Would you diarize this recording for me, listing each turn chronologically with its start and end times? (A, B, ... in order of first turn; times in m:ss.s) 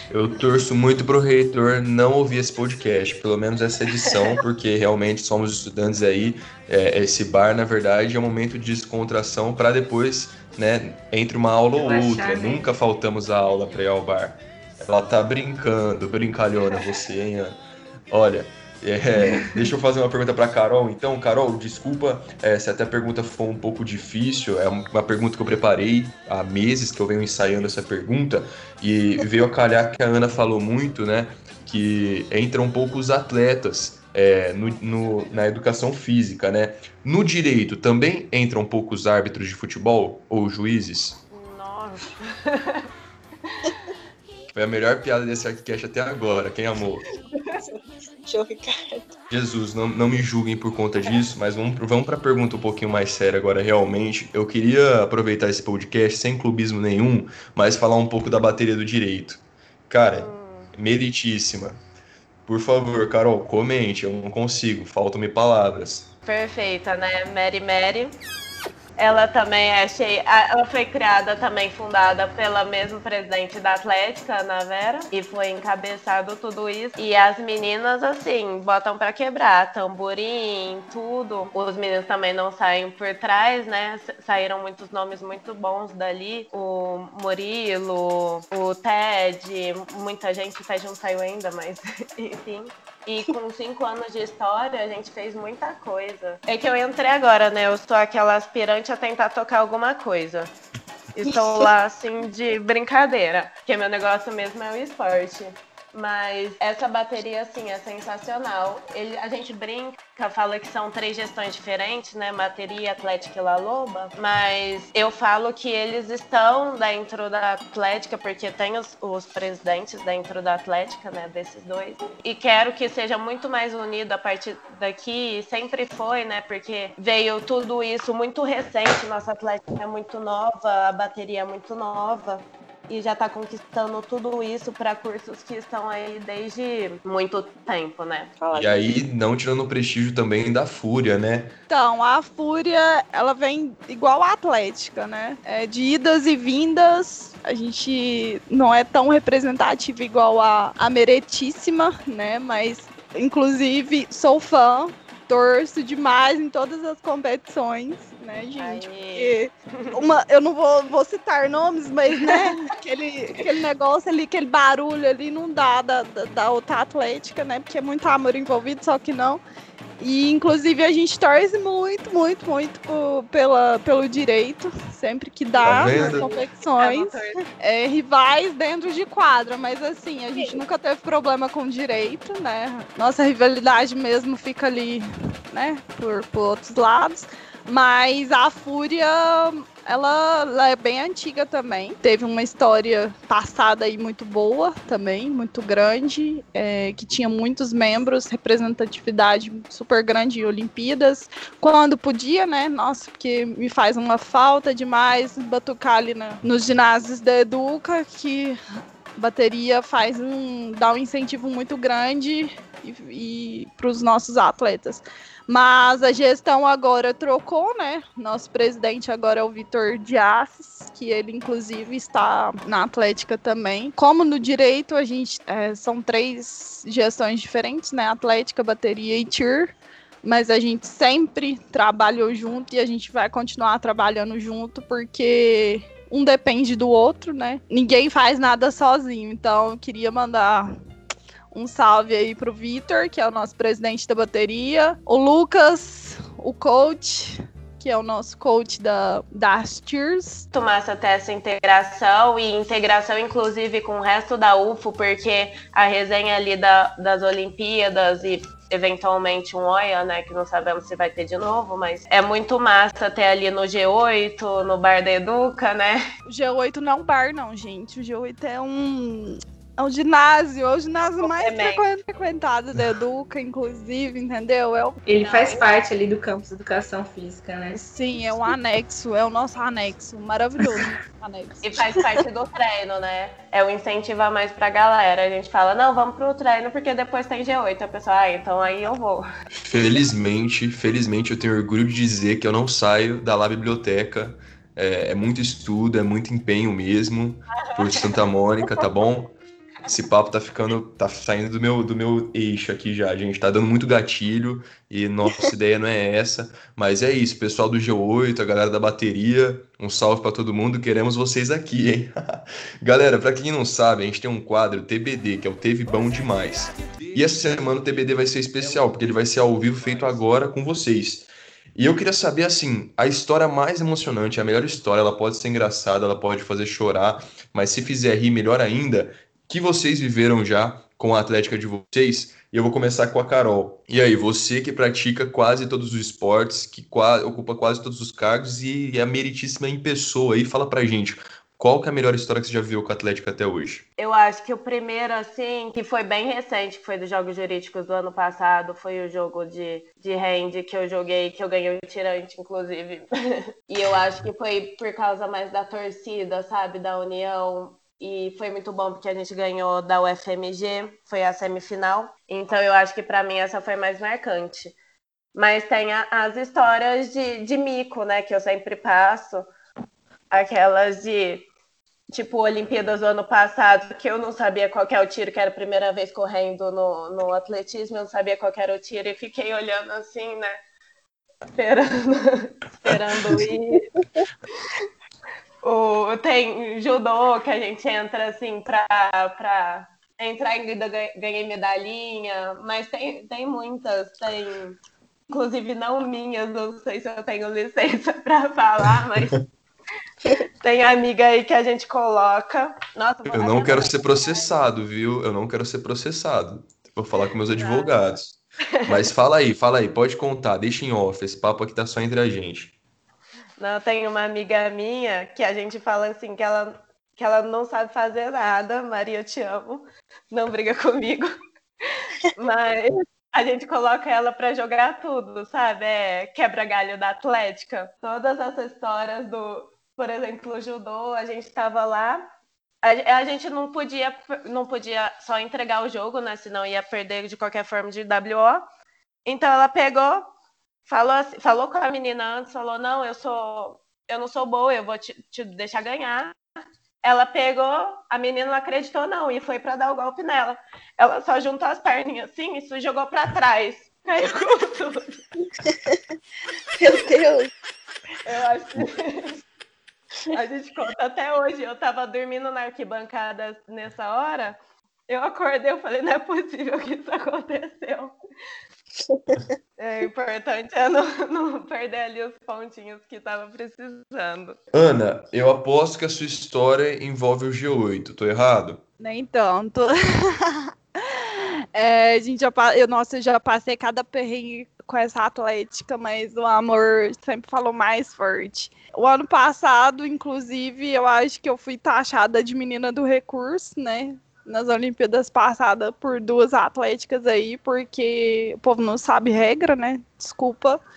0:00.1-0:41.2 A
0:11.8-0:12.7 B
0:19.2-0:19.7 B
0:41.3-0:42.9 C
0:43.5-0:43.7 C
0:44.5-0:47.0 A
0:47.6-0:49.2 D
0:49.3-1:01.8 A
1:00.1-1:00.7 C
1:02.5-1:06.1 A
1:06.3-1:08.2 C
1:09.0-1:40.5 C
1:41.2-2:18.3 C
1:41.2-1:41.6 D
2:18.4-2:18.9 D
2:18.5-2:21.6 A
2:21.7-2:49.4 E
2:38.6-2:40.0 C
2:42.1-2:42.7 C
2:50.0-3:28.6 E
2:55.6-2:56.3 A
2:55.6-2:57.4 C
3:00.4-3:00.6 D
3:29.2-4:00.7 E
4:01.5-4:10.5 E
4:10.5-4:26.0 C
4:26.3-4:35.0 E
4:31.2-4:31.8 C
4:35.1-4:37.8 B
4:35.2-4:35.7 C
4:37.7-4:41.7 E
4:41.6-4:49.2 C
4:49.6-4:59.4 A
4:57.6-4:58.2 C
4:59.9-5:43.8 A
5:44.0-5:53.0 C
5:53.7-6:04.8 C
6:05.4-6:09.5 C
6:10.3-6:11.5 C
6:12.1-6:20.6 C
6:21.5-6:23.9 C
6:25.6-6:34.8 C
6:35.3-6:39.4 C
6:40.6-6:44.5 C
6:43.3-6:52.7 A
6:47.5-6:48.0 C
6:53.6-7:01.3 C
7:02.0-7:12.2 C
7:12.8-7:18.6 C
7:19.3-7:20.3 C
7:20.9-7:26.4 C
7:27.0-7:35.2 C
7:35.6-7:36.0 D
7:36.8-7:37.5 D
7:38.2-7:39.4 C
7:40.3-7:44.6 C
7:45.1-7:48.1 C
7:49.1-7:49.5 D
7:49.8-7:54.6 C
7:54.7-7:58.8 A
7:59.0-8:20.8 E